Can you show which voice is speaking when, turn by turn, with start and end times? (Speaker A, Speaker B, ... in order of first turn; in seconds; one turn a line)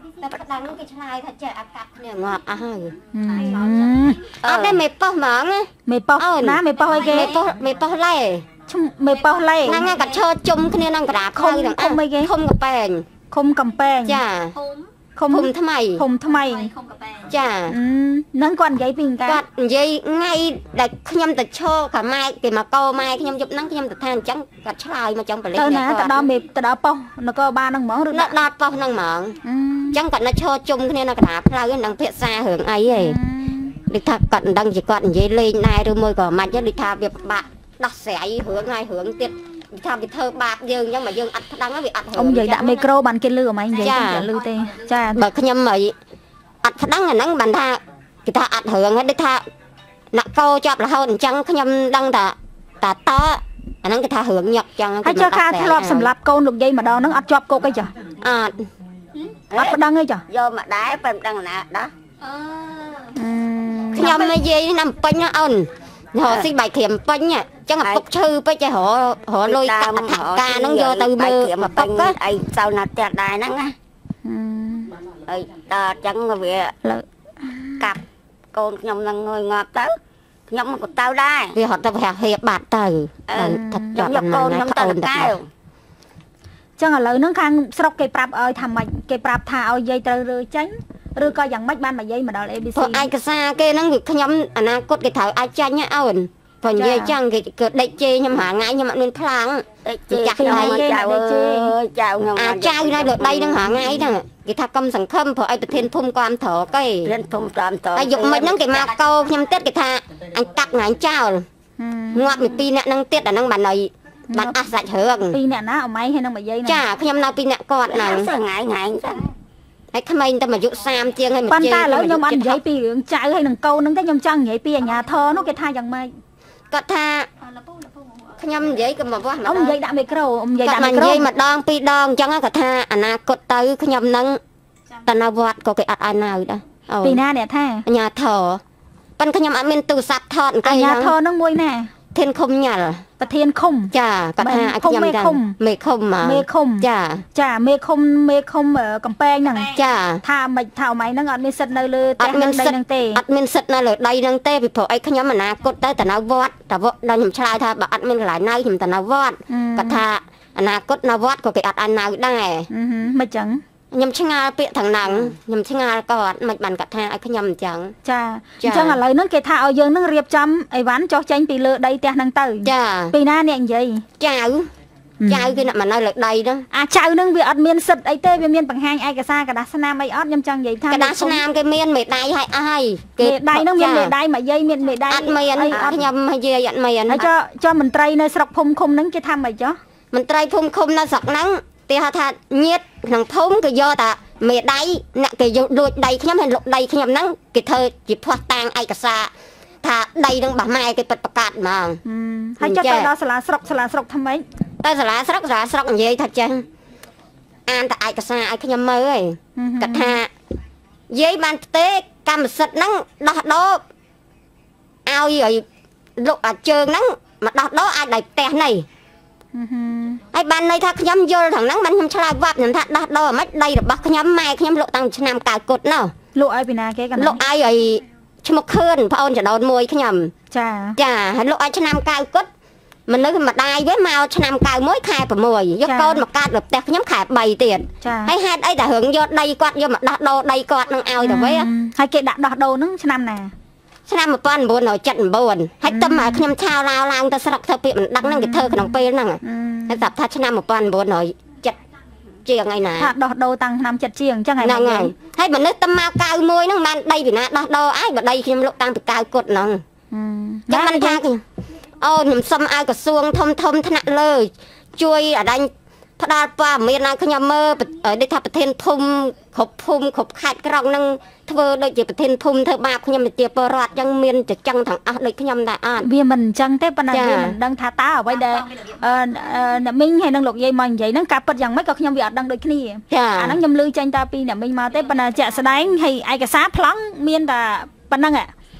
Speaker A: 0.2-3.0
Speaker B: 3.1-4.3
Speaker C: 4.4-4.8
Speaker A: 4.4-8.4
Speaker B: 5.9-7.3
Speaker B: 8.7-9.9
Speaker D: 9.6-10.2
Speaker A: 9.6-13.1
Speaker B: 11.3-12.3
Speaker B: 13.3-14.2
Speaker A: 14.1-14.5
Speaker D: 14.6-14.9
Speaker B: 15.2-16.7
Speaker A: 15.3-16.0
Speaker D: 16.4-17.3
Speaker A: 17.3-17.7
Speaker B: 17.7-19.4
Speaker A: 19.2-26.2
Speaker B: 25.5-28.4
Speaker A: 28.1-29.4
Speaker B: 29.4-30.0
Speaker A: 29.9-33.2
Speaker B: 32.9-33.8
Speaker A: 33.9-42.9
Speaker B: 42.1-45.2
Speaker A: 43.8-44.3
Speaker A: 45.1-45.9
Speaker A: 46.6-49.4
Speaker A: 50.1-56.1
Speaker B: 55.0-57.9
Speaker A: 58.2-58.7
Speaker C: 59.5-61.9
Speaker B: 59.5-60.2
Speaker D: 62.3-63.0
Speaker B: 63.1-64.3
Speaker A: 63.9-72.1
Speaker C: 63.9-64.2
Speaker C: 66.2-66.5
Speaker C: 69.4-73.7
Speaker B: 74.2-74.9
Speaker C: 75.3-76.8
Speaker B: 76.8-77.8
Speaker C: 78.5-80.0
Speaker C: 80.5-81.5
Speaker A: 81.5-85.3
Speaker C: 83.3-85.5
Speaker B: 83.4-83.9
Speaker B: 86.8-93.1
Speaker A: 92.8-100.8
Speaker B: 96.7-97.1
Speaker C: 99.8-104.1
Speaker B: 100.4-101.7
Speaker A: 102.4-107.1
Speaker C: 107.0-108.9
Speaker A: 107.9-111.5
Speaker B: 111.8-112.2
Speaker A: 112.1-115.4
Speaker B: 114.3-114.6
Speaker B: 115.3-116.8
Speaker A: 116.7-118.3
Speaker C: 117.9-119.3
Speaker A: 119.9-122.6
Speaker B: 121.5-126.1
Speaker A: 126.7-127.3
Speaker D: 127.7-128.2
Speaker A: 128.4-129.8
Speaker B: 129.4-131.3
Speaker A: 130.6-134.4
Speaker A: 135.0-137.2
Speaker B: 137.0-137.8
Speaker A: 137.8-138.6
Speaker A: 139.2-141.1
Speaker B: 140.6-141.9
Speaker A: 142.1-143.0
Speaker B: 143.2-145.6
Speaker A: 143.9-147.2
Speaker B: 146.2-153.2
Speaker A: 149.7-150.2
Speaker A: 152.2-162.7
Speaker B: 159.5-160.0
Speaker B: 162.7-163.6
Speaker A: 163.9-167.9
Speaker B: 168.0-174.1
Speaker A: 168.6-169.0
Speaker A: 172.6-173.1
Speaker A: 174.2-174.7
Speaker B: 175.2-175.5
Speaker A: 175.2-176.7
Speaker B: 176.7-181.4
Speaker A: 180.9-184.1
Speaker B: 183.2-186.0
Speaker A: 185.1-187.3
Speaker B: 187.1-189.8
Speaker A: 190.1-199.3
Speaker A: 199.8-202.0
Speaker B: 202.0-204.4
Speaker A: 202.6-203.1
Speaker A: 204.8-206.7
Speaker A: 207.7-210.3
Speaker B: 209.6-210.2
Speaker A: 211.1-213.8
Speaker A: 215.1-215.6
Speaker A: 216.2-218.8
Speaker B: 219.5-220.2
Speaker A: 220.3-226.1
Speaker B: 226.3-227.4
Speaker A: 227.2-230.3
Speaker B: 230.5-231.0
Speaker A: 231.0-232.5
Speaker A: 233.1-241.7
Speaker B: 235.8-236.2
Speaker B: 238.0-238.3
Speaker B: 241.2-243.5
Speaker A: 244.1-251.8
Speaker B: 245.9-246.4
Speaker B: 248.2-250.0
Speaker A: 252.4-253.1
Speaker B: 253.0-255.1
Speaker A: 254.6-259.8
Speaker B: 260.1-261.2
Speaker A: 260.7-261.4
Speaker A: 262.0-276.1
Speaker B: 276.0-288.5
Speaker A: 277.1-277.6
Speaker D: 278.5-278.9
Speaker A: 283.1-283.6